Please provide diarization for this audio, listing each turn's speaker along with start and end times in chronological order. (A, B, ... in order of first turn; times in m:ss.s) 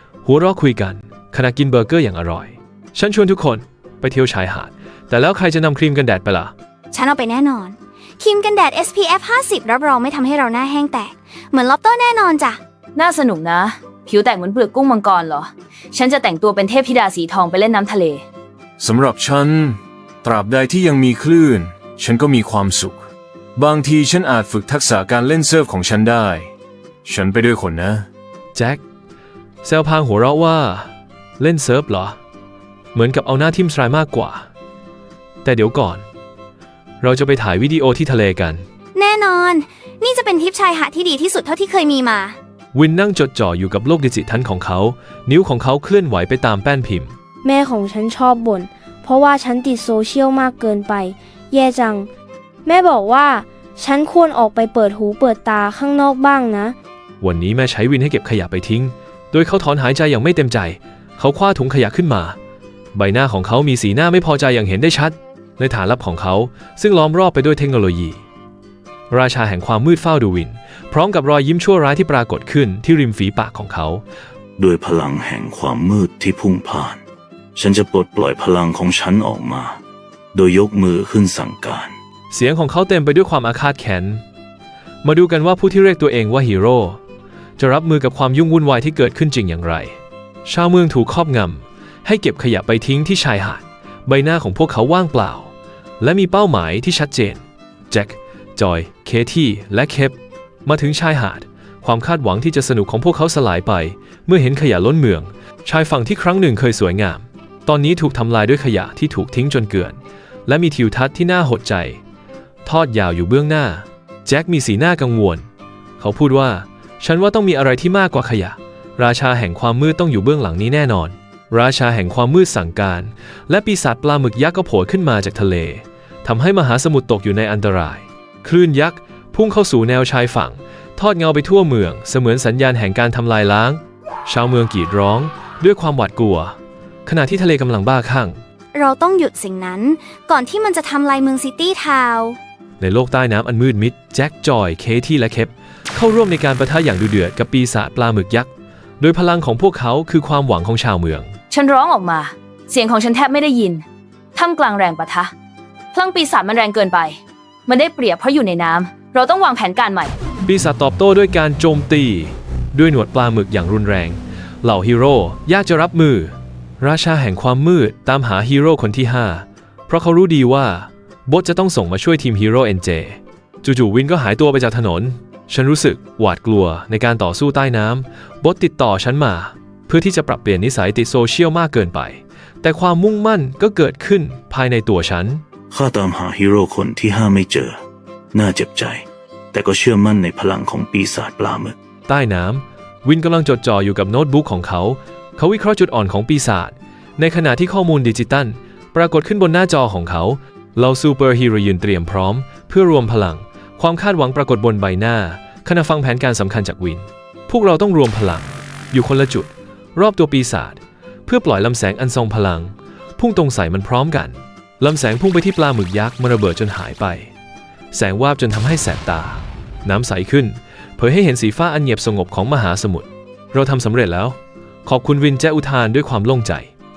0:00.2-0:06.5 A
0:06.9-0:12.6 B
0:13.0-0:18.2 C
0:18.8-0:26.5 D
0:27.0-0:28.1 D
0:28.5-0:28.8 A
0:29.6-0:32.2 A
0:32.9-0:34.5 A
0:35.4-0:36.0 A
0:37.0-0:38.6 A
0:39.0-0:42.4 B
0:42.7-0:47.1 A
0:47.4-0:52.1 E
0:52.6-0:56.8 E
0:57.2-1:02.4 A
1:02.9-1:08.2 A
1:09.1-1:14.0 A
1:14.6-1:17.0 F
1:17.6-1:19.8 F
1:20.3-1:22.0 F
1:22.3-1:24.2 A
1:25.0-1:27.0 A
1:27.6-1:52.0 A
1:52.6-1:55.4 A
1:56.0-2:18.4 A
2:18.7-2:22.4 B
2:22.8-2:31.3 A
2:31.5-2:33.8 C
2:34.4-2:35.3 C
2:35.9-2:40.2 C
2:40.4-3:05.4 A
3:05.7-3:07.8 F
3:08.3-3:11.8 F
3:12.1-3:37.3 A
3:37.9-3:46.7 A